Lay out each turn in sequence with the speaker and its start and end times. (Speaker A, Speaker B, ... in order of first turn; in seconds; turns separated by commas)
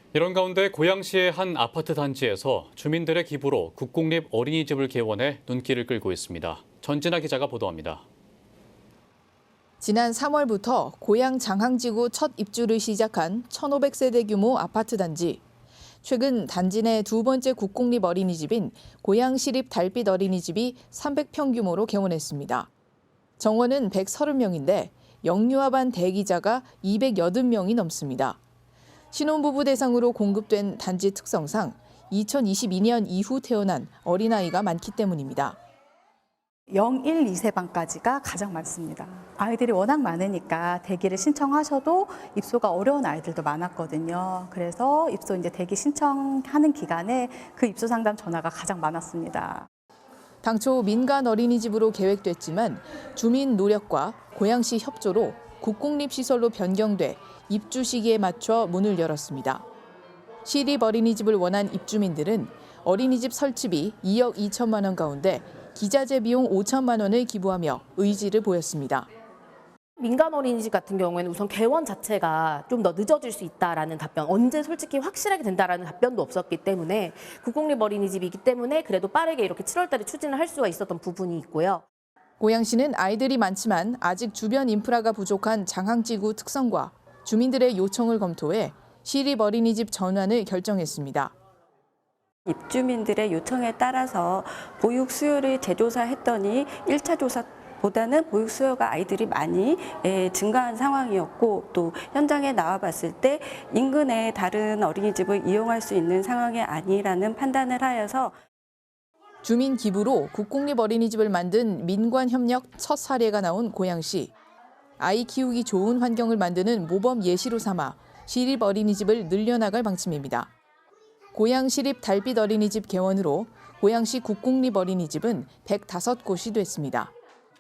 Speaker A: 0.1-8.1, Speaker B: 9.8-15.4, Speaker B: 16.0-22.7, Speaker B: 23.4-28.4, Speaker B: 29.1-35.6, Speaker C: 36.7-49.7, Speaker B: 50.4-59.6, Speaker B: 60.5-69.1, Speaker D: 70.0-81.8, Speaker B: 82.4-91.3, Speaker E: 92.5-108.4, Speaker B: 109.4-114.3, Speaker B: 115.0-120.5, Speaker B: 121.3-127.1